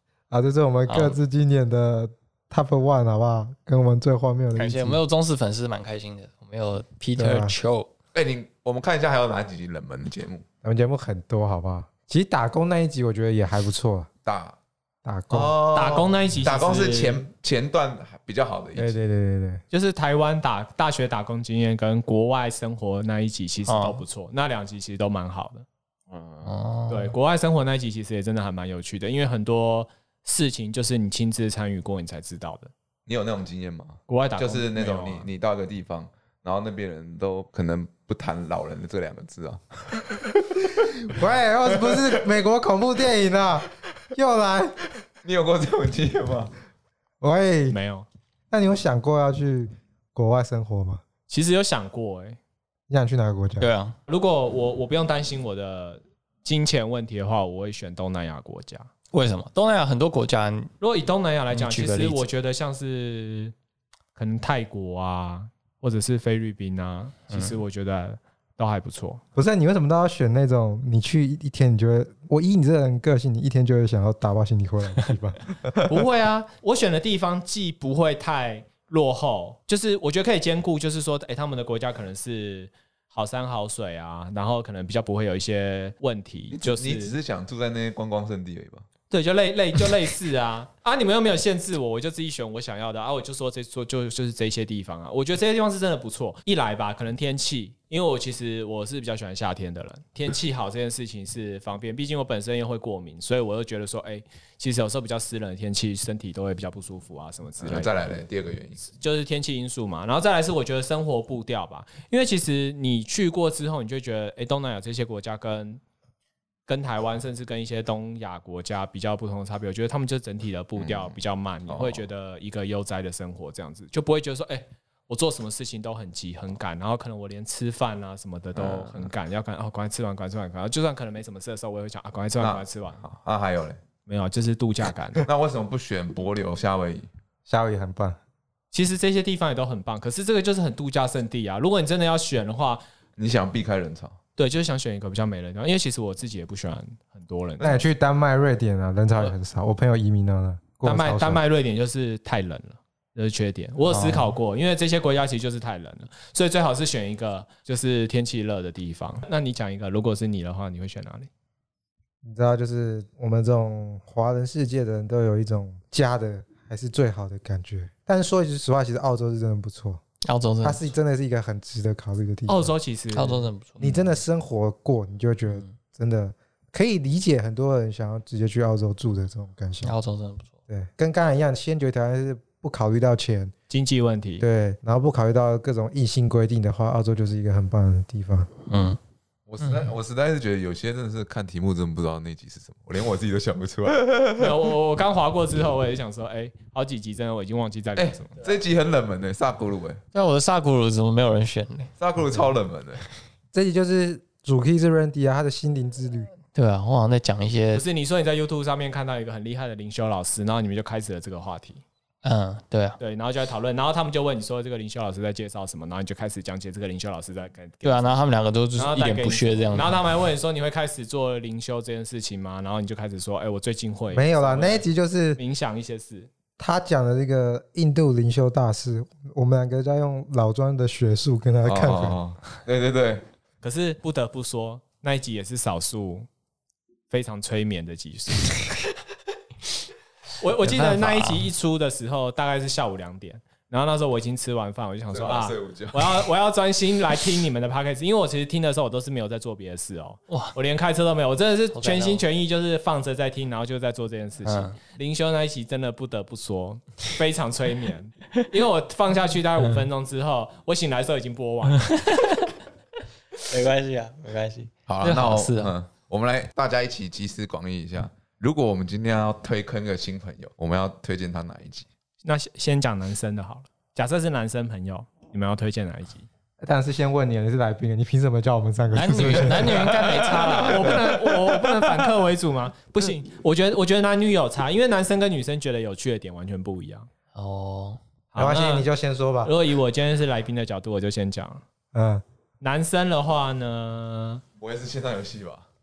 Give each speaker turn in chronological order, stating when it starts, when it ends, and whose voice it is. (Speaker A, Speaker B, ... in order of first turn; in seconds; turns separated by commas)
Speaker A: 0.3-5.0, Speaker B: 0.9-1.1, Speaker B: 4.5-7.9, Speaker A: 7.2-7.5, Speaker C: 8.1-10.4, Speaker A: 10.6-14.1, Speaker C: 14.2-14.6, Speaker A: 15.0-15.6, Speaker C: 15.3-19.0, Speaker D: 15.7-17.2, Speaker A: 18.8-19.6, Speaker D: 19.7-25.6, Speaker B: 23.7-24.0, Speaker C: 26.1-26.5, Speaker B: 26.4-27.1, Speaker D: 26.9-32.7, Speaker C: 33.1-40.3, Speaker D: 34.1-35.3, Speaker A: 41.0-44.7, Speaker C: 45.2-46.5, Speaker A: 47.2-47.8, Speaker D: 47.7-48.0, Speaker A: 48.5-51.0, Speaker D: 51.3-52.4, Speaker A: 52.9-53.7, Speaker B: 53.6-54.0, Speaker D: 54.1-58.9, Speaker B: 59.1-60.7, Speaker D: 60.8-63.5, Speaker B: 61.5-62.2, Speaker D: 64.2-69.2, Speaker B: 67.3-67.5, Speaker A: 69.3-75.8, Speaker D: 75.9-87.2, Speaker C: 86.5-88.8, Speaker D: 89.1-107.9, Speaker C: 107.6-108.8, Speaker D: 108.9-115.8, Speaker D: 116.7-133.0, Speaker C: 120.8-122.0, Speaker C: 128.5-129.1, Speaker C: 132.4-133.8, Speaker D: 134.1-135.2, Speaker C: 135.2-137.1, Speaker A: 137.5-138.2, Speaker D: 138.7-142.8, Speaker C: 143.2-144.2, Speaker D: 144.3-147.8, Speaker A: 147.6-151.4, Speaker D: 150.8-161.3, Speaker B: 153.9-154.3, Speaker A: 162.2-170.0, Speaker B: 170.2-170.8, Speaker A: 170.6-172.7, Speaker D: 172.5-173.5, Speaker B: 173.1-174.1, Speaker A: 173.8-179.9, Speaker B: 179.8-180.5, Speaker A: 180.7-183.5, Speaker D: 183.7-184.4, Speaker A: 184.4-188.5, Speaker B: 188.7-189.0, Speaker C: 189.5-194.5, Speaker B: 189.6-189.9, Speaker D: 194.4-198.4, Speaker C: 197.9-200.0, Speaker B: 200.1-201.9, Speaker C: 202.0-203.0, Speaker A: 203.5-206.3, Speaker B: 206.5-207.8, Speaker D: 207.7-211.8, Speaker B: 212.2-213.0, Speaker D: 213.0-218.1, Speaker B: 217.8-220.0, Speaker D: 218.8-224.8, Speaker A: 224.1-225.4, Speaker D: 225.3-226.3, Speaker A: 226.6-232.2, Speaker C: 231.6-233.2, Speaker D: 233.6-236.3, Speaker D: 237.1-238.6, Speaker D: 240.4-261.8, Speaker B: 240.6-241.5, Speaker C: 245.1-246.3, Speaker B: 250.3-250.5, Speaker B: 251.7-252.2, Speaker B: 254.4-254.8, Speaker B: 261.8-262.5, Speaker B: 263.4-265.7, Speaker C: 264.9-271.9, Speaker D: 272.2-276.3, Speaker A: 276.6-279.9, Speaker B: 278.9-281.1, Speaker D: 279.4-287.1, Speaker B: 287.3-288.0, Speaker D: 288.3-288.9, Speaker A: 288.4-289.5, Speaker D: 289.4-291.6, Speaker A: 291.9-292.2, Speaker D: 292.6-294.4, Speaker C: 294.6-295.6